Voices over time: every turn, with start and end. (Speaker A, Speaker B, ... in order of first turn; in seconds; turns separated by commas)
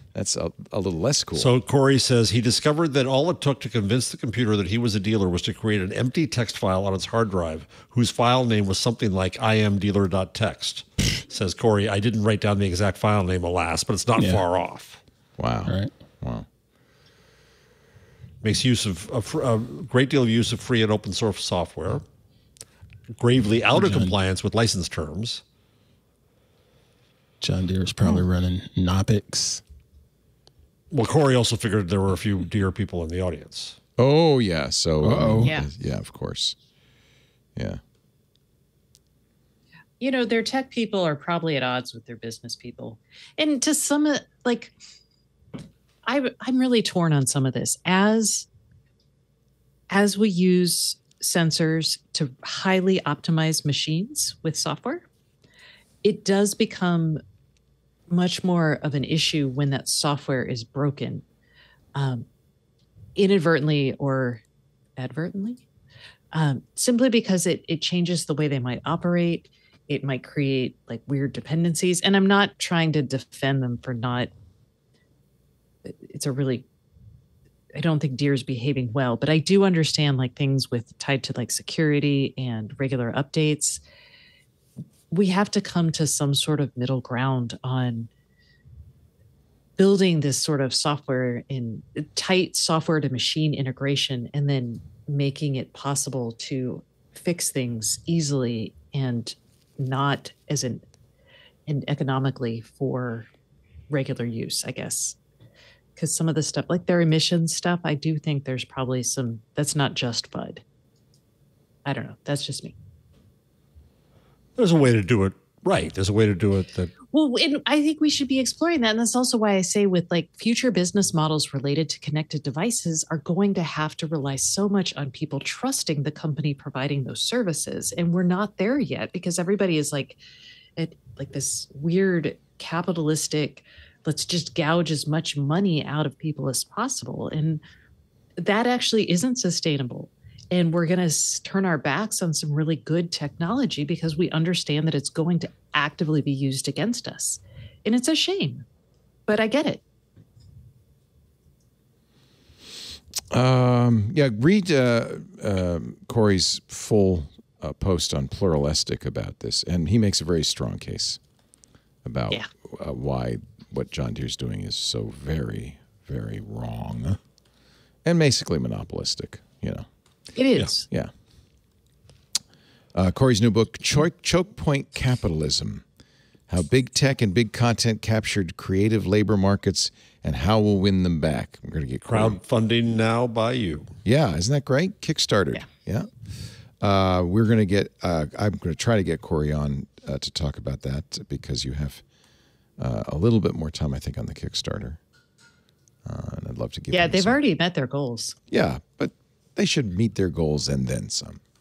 Speaker A: 0.1-1.5, Speaker B: 1.4-15.0, Speaker C: 14.2-14.4, Speaker A: 15.4-16.5, Speaker C: 15.7-15.9, Speaker B: 18.4-22.0, Speaker B: 23.1-25.4, Speaker C: 23.7-24.2, Speaker C: 27.4-29.6, Speaker B: 30.9-33.8, Speaker A: 34.0-36.6, Speaker C: 35.0-35.5, Speaker D: 40.0-44.8, Speaker D: 46.1-48.5, Speaker D: 49.9-55.1, Speaker D: 56.0-57.2, Speaker D: 58.1-61.2, Speaker D: 62.0-62.3, Speaker D: 63.2-64.4, Speaker D: 65.0-65.6, Speaker D: 66.3-74.3, Speaker D: 75.9-76.7, Speaker D: 77.8-83.8, Speaker D: 85.1-88.1, Speaker D: 89.8-100.8, Speaker D: 101.7-103.3, Speaker D: 103.9-105.2, Speaker D: 106.0-110.6, Speaker D: 111.8-112.8, Speaker B: 114.6-116.9, Speaker D: 117.1-130.2, Speaker D: 130.8-137.6, Speaker D: 138.4-148.7, Speaker D: 149.3-149.8, Speaker A: 153.3-161.2, Speaker A: 162.1-167.2, Speaker A: 168.1-169.9, Speaker D: 170.3-170.9, Speaker A: 172.9-175.8, Speaker A: 176.5-182.4, Speaker B: 182.1-183.9, Speaker A: 184.1-186.1, Speaker A: 186.8-192.0, Speaker A: 192.8-195.0, Speaker A: 196.1-197.4, Speaker D: 196.9-198.3, Speaker A: 198.5-201.4